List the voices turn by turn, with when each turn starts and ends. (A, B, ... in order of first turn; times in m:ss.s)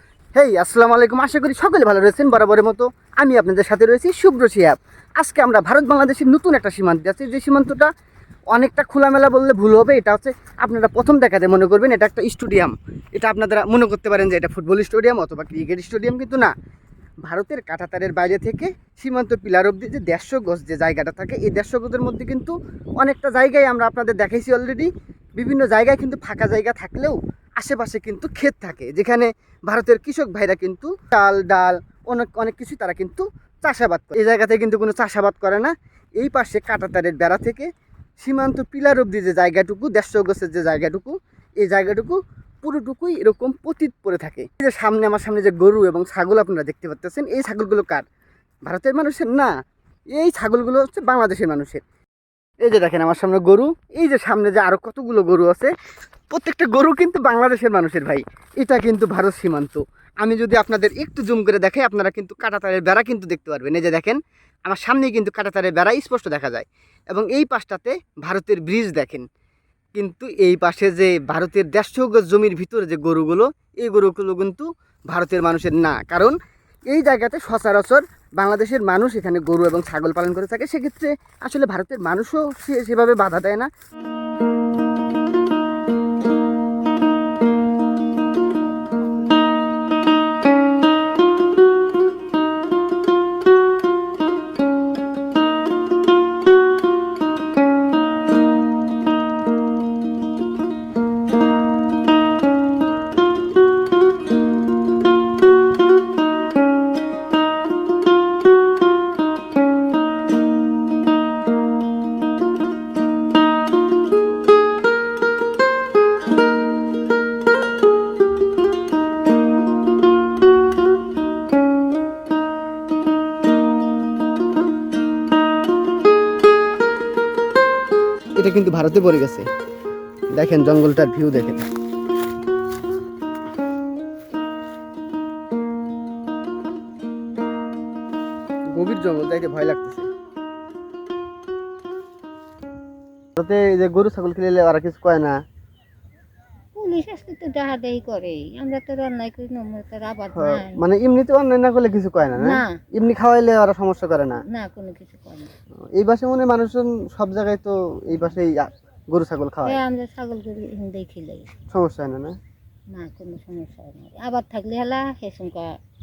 0:00.3-0:07.9 A
0:08.5-0:16.5 A
0:17.2-0:37.7 A
0:38.2-0:48.0 A
0:48.7-0:49.5 A
0:50.2-0:51.8 A
0:52.6-0:55.7 A
0:56.3-1:09.2 A
1:10.0-1:16.4 A
1:16.9-1:23.7 A
2:08.4-2:09.5 A
2:10.4-2:11.7 A
2:18.7-2:20.1 A
2:23.4-2:25.4 A
2:26.8-2:30.8 B
2:30.4-2:34.4 A
2:32.3-2:32.8 B
2:34.5-2:35.5 B
2:35.9-2:39.8 A
2:39.6-2:41.5 B
2:41.7-2:42.4 A
2:42.9-2:45.8 B